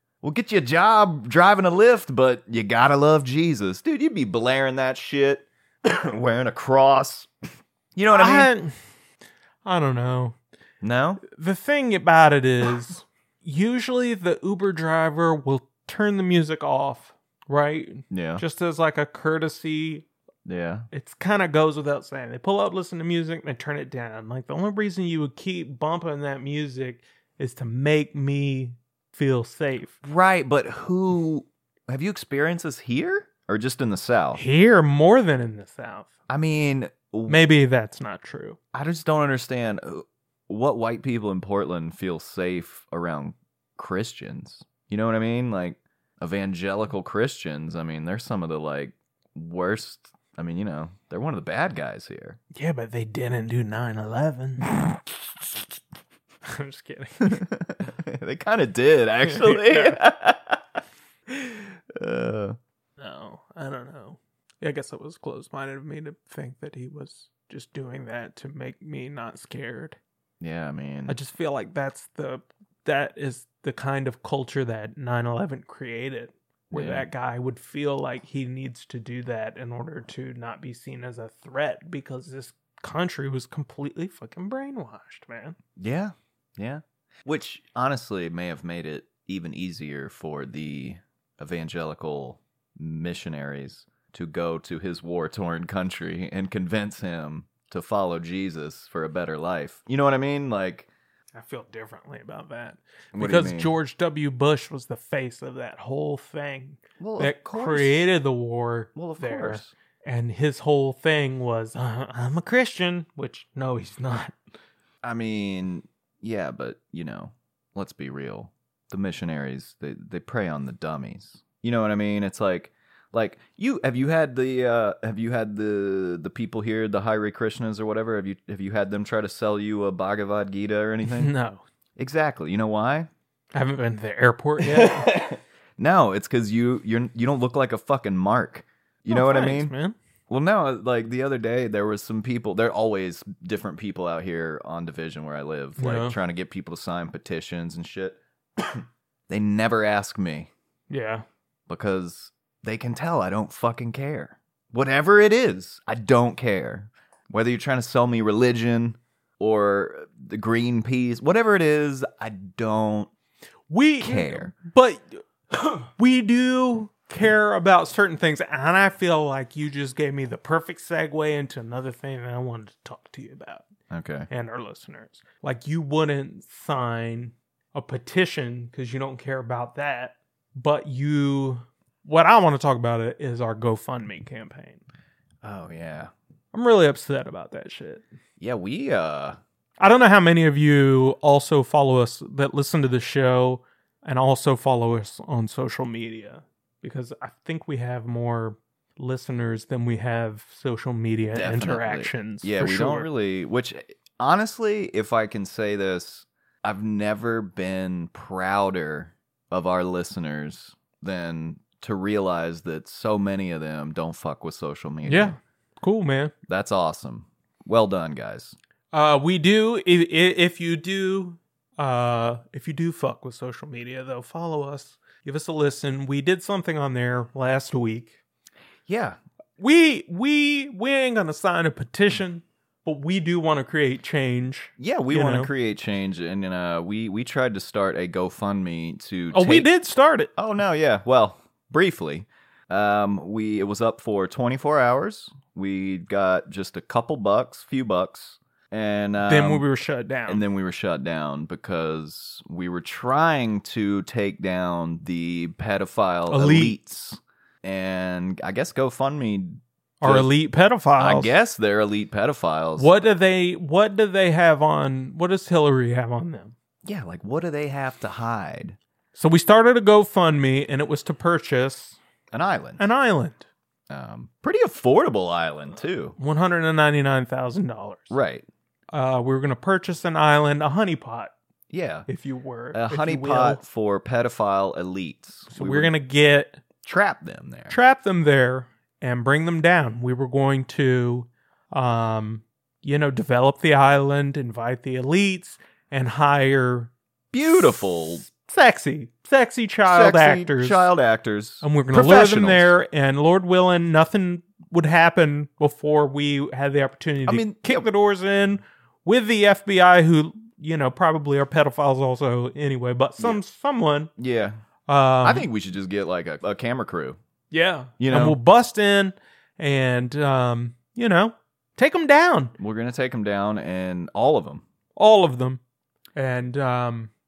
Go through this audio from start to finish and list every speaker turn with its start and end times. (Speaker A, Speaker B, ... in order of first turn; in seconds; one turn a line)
Speaker A: 0.2-7.3
Speaker A: 8.0-8.5
Speaker B: 8.1-8.8
Speaker B: 9.7-10.4
Speaker A: 10.8-11.2
Speaker B: 11.2-20.1
Speaker A: 18.1-18.4
Speaker A: 20.4-20.9
Speaker B: 20.9-30.0
Speaker A: 30.0-34.4
Speaker B: 34.3-36.1
Speaker A: 36.3-37.4
Speaker B: 37.3-38.6
Speaker A: 38.7-52.4
Speaker B: 52.5-54.7
Speaker B: 56.5-57.4
Speaker A: 57.2-60.6
Speaker B: 59.2-60.0
Speaker A: 61.3-62.6
Speaker B: 63.0-70.0
Speaker A: 70.4-71.2
Speaker B: 71.1-85.6
Speaker A: 76.7-77.1
Speaker A: 85.8-100.9
Speaker B: 101.3-114.4
Speaker A: 103.1-103.7
Speaker A: 107.0-108.0
Speaker A: 109.0-109.7
Speaker A: 115.0-131.3
Speaker B: 131.1-131.6
Speaker A: 132.0-133.1
Speaker B: 133.5-135.1
Speaker A: 134.6-139.7
Speaker B: 139.1-140.0
Speaker A: 140.3-150.5
Speaker B: 145.8-146.2
Speaker B: 150.9-151.2
Speaker A: 151.7-163.1
Speaker B: 163.7-173.7
Speaker A: 164.0-164.5
Speaker A: 173.9-174.3
Speaker B: 174.3-184.8
Speaker A: 185.4-186.1
Speaker B: 186.5-188.1
Speaker A: 188.4-189.4
Speaker B: 189.8-203.1
Speaker A: 201.3-215.4
Speaker B: 215.1-216.3
Speaker A: 216.5-218.6
Speaker B: 218.9-228.1
Speaker A: 228.9-229.2
Speaker B: 229.6-235.5
Speaker A: 234.8-239.7
Speaker B: 239.3-240.3
Speaker A: 240.4-249.6
Speaker B: 249.3-250.4
Speaker A: 250.3-260.3
Speaker B: 256.3-256.8
Speaker B: 260.0-261.3
Speaker A: 261.0-262.9
Speaker B: 262.8-266.5
Speaker A: 266.9-268.8
Speaker B: 269.1-272.0
Speaker A: 272.3-272.8
Speaker B: 272.8-273.5
Speaker A: 273.9-276.2
Speaker B: 276.2-278.1
Speaker A: 278.1-278.4
Speaker B: 278.9-281.3
Speaker A: 281.7-282.1
Speaker B: 282.1-283.6
Speaker A: 282.7-285.9
Speaker B: 285.5-286.6
Speaker A: 286.8-287.8
Speaker B: 287.7-296.9
Speaker A: 297.3-298.3
Speaker B: 297.5-300.9
Speaker A: 299.9-302.7
Speaker B: 301.6-314.1
Speaker A: 307.2-307.9
Speaker A: 314.2-314.6
Speaker B: 314.9-315.5
Speaker A: 315.2-317.2
Speaker B: 317.5-322.5
Speaker A: 318.0-318.4
Speaker A: 322.6-324.6
Speaker B: 325.0-325.6
Speaker B: 326.2-327.1